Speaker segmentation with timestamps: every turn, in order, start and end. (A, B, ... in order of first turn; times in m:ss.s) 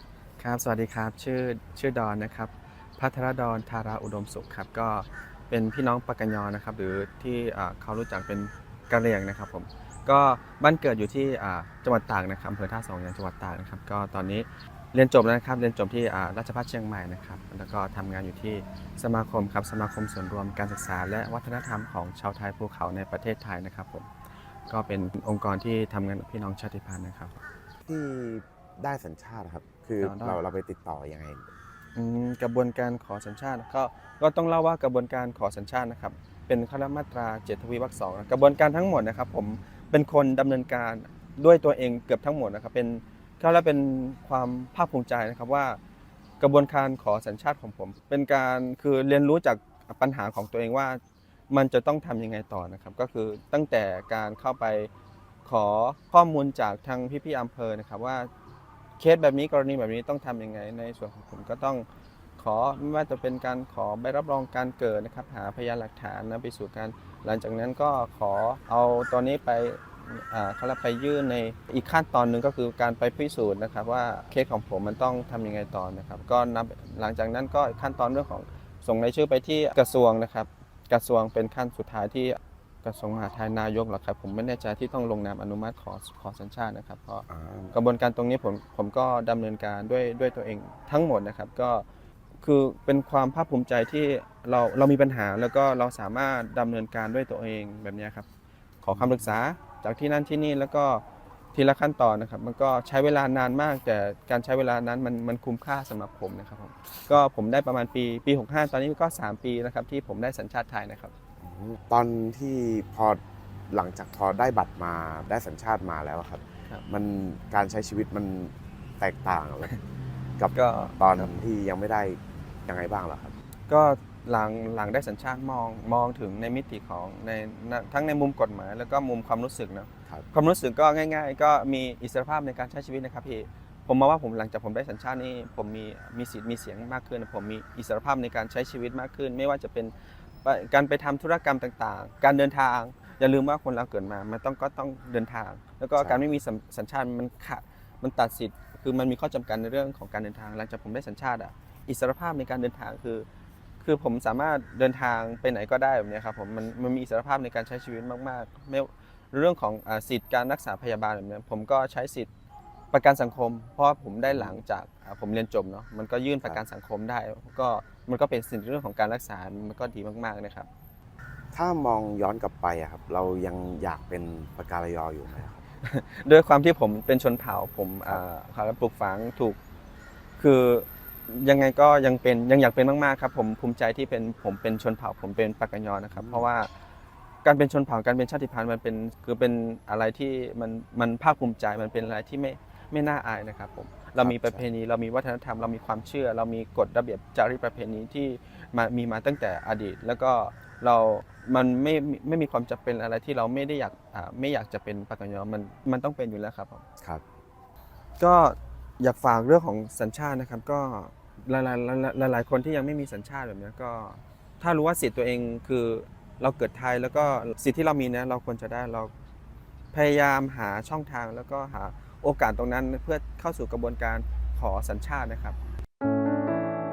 0:00.4-0:24.1 A
0:24.7-0:27.4 A
0:27.9-0:31.5 B
0:30.0-0:30.4 A
0:32.0-0:45.8 A
0:46.4-0:54.9 A
0:55.4-0:58.3 A
0:59.0-1:01.8 A
1:02.4-1:31.8 A
1:27.3-1:27.8 B
1:32.4-1:38.3 A
1:38.8-1:41.0 A
1:38.9-1:39.3 B
1:41.5-1:51.1 A
1:51.4-1:59.7 B
2:00.4-2:03.3 B
2:00.5-2:01.3 A
2:03.7-2:33.3 A
2:26.0-2:26.2 B
2:33.8-2:42.3 A
2:42.9-2:50.7 A
2:44.3-2:44.6 B
2:51.5-2:55.6 B
2:55.8-2:59.6 A
3:00.4-3:06.7 A
3:06.1-3:06.5 B
3:07.4-3:26.8 A
3:14.2-3:14.7 B
3:28.2-3:39.1 A
3:39.9-3:45.6 A